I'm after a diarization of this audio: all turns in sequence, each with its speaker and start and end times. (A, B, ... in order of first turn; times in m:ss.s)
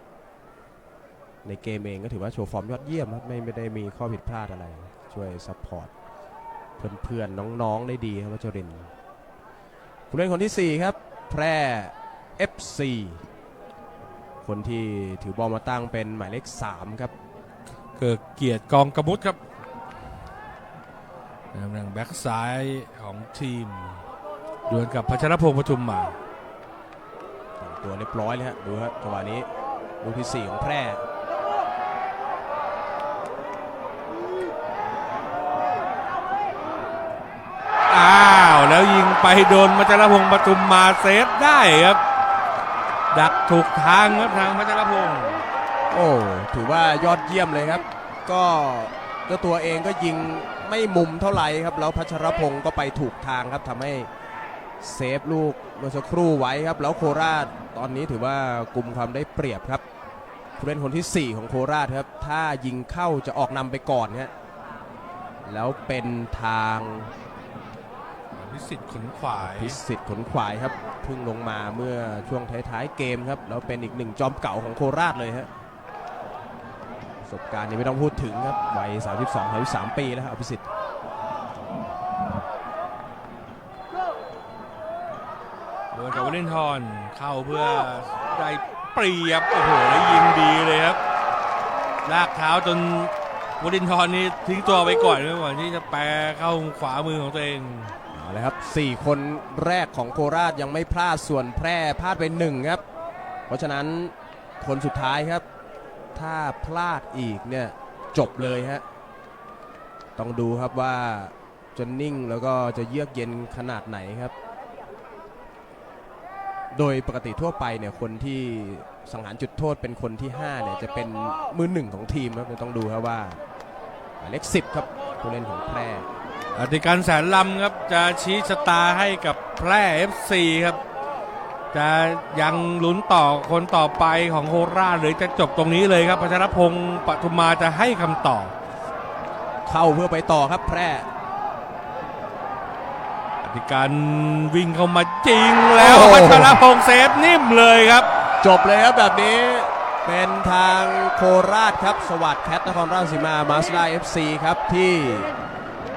0:01.4-0:05.9 A
0:06.8-0:08.9 A
0:10.1-0:13.2 A
0:14.4-0:17.1 A
0:18.0-0:19.4 B
0:21.5-0:24.0 B
0:24.7-0:26.2 B
0:27.6-0:29.5 A
0:30.0-0:31.0 A
0:37.9-0:42.0 B
0:43.1-0:45.4 B
0:45.9-0:54.1 A
0:54.8-0:59.8 A
1:00.6-1:04.3 A
1:05.4-1:07.1 A
1:08.3-1:09.8 B
1:09.5-1:15.5 A
1:17.2-1:20.6 A
1:25.9-1:31.0 B
1:32.0-1:37.9 B
1:38.1-1:42.8 A
1:43.5-1:45.4 A
1:46.1-1:48.8 A
1:50.2-1:54.3 A
1:56.7-2:03.4 A
2:04.2-2:06.1 A
2:06.5-2:10.8 B
2:11.7-2:18.5 B
2:19.6-2:21.1 A
2:23.4-2:28.1 B
2:25.8-2:26.6 A
2:28.4-2:35.3 A